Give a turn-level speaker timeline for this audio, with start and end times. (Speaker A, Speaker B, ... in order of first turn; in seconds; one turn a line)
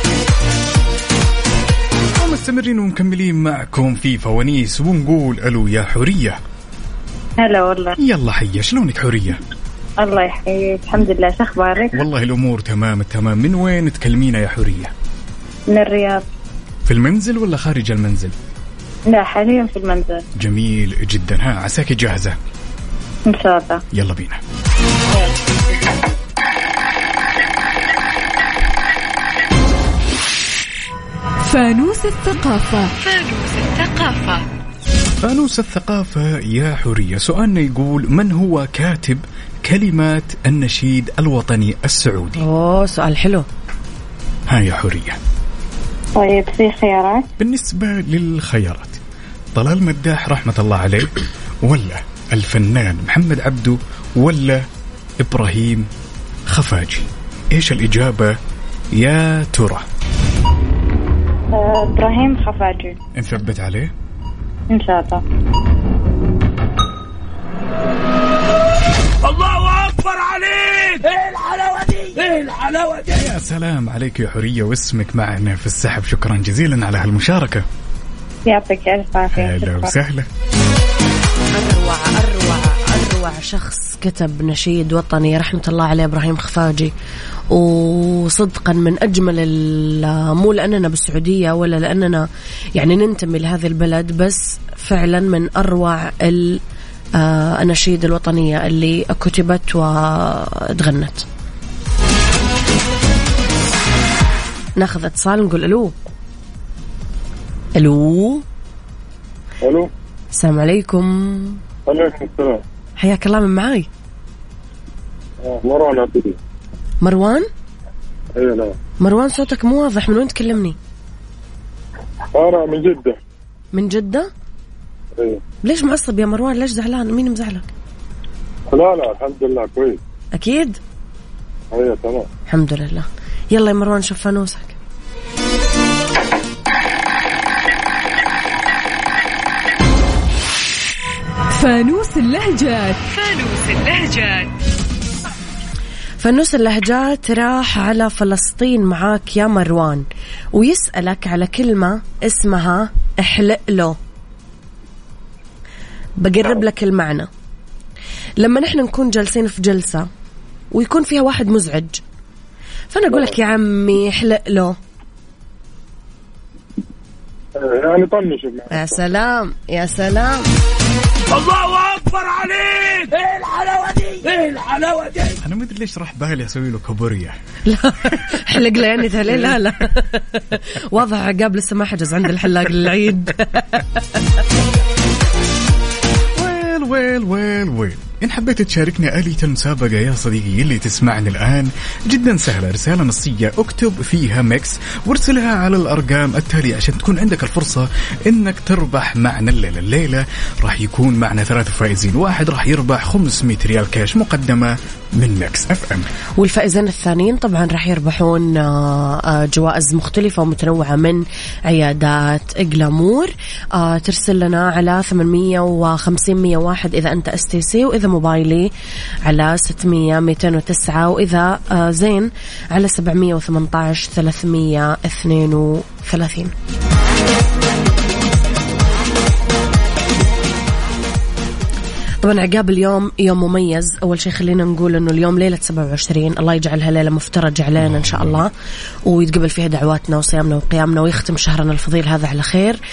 Speaker A: 2.2-6.4
Speaker B: 7.4-7.9
Speaker A: 8.0-9.4
Speaker B: 10.0-11.9
Speaker A: 11.9-14.9
Speaker B: 15.7-16.2
Speaker A: 16.8-18.3
Speaker B: 19.1-20.2
Speaker A: 20.4-22.3
Speaker B: 23.3-23.8
Speaker A: 23.9-24.4
Speaker C: 31.4-32.9
Speaker D: 33.0-34.4
Speaker A: 35.2-42.4
Speaker E: 42.4-43.5
Speaker A: 44.5-45.2
Speaker B: 46.1-47.2
Speaker A: 47.4-49.0
Speaker A: 49.5-51.1
Speaker A: 51.6-54.6
Speaker A: 55.2-55.9
Speaker A: 56.5-58.4
Speaker A: 58.9-59.9
Speaker B: 61.5-63.0
Speaker A: 63.1-63.9
Speaker B: 64.7-65.2
Speaker A: 73.1-77.6
Speaker B: 78.5-79.9
Speaker A: 79.3-80.3
Speaker E: 81.5-86.9
Speaker E: 87.5-96.6
Speaker E: 97.1-101.2
Speaker E: 104.8-105.9
Speaker E: 107.8-108.4
Speaker F: 109.6-109.9
Speaker E: 110.3-111.6
Speaker F: 111.9-112.6
Speaker E: 113.0-113.9
Speaker F: 115.4-116.4
Speaker E: 117.0-117.5
Speaker F: 118.4-118.7
Speaker E: 119.0-120.8
Speaker F: 122.3-123.2
Speaker E: 123.7-124.3
Speaker E: 125.6-127.7
Speaker F: 128.7-130.0
Speaker E: 130.3-130.8
Speaker F: 131.7-132.3
Speaker E: 132.5-134.8
Speaker C: 141.5-143.0
Speaker D: 143.1-144.6
Speaker E: 146.2-154.0
Speaker E: 156.2-157.3
Speaker E: 158.4-160.1
Speaker E: 160.7-162.0
Speaker E: 162.9-164.8
Speaker F: 167.6-168.9
Speaker E: 168.7-170.5
Speaker A: 175.4-177.3
Speaker E: 177.7-183.8
Speaker A: 186.3-206.1
Speaker E: 206.4-218.7
Speaker E: 219.2-226.5
Speaker E: 232.2-238.5
Speaker A: 237.8-238.4
Speaker E: 239.1-242.8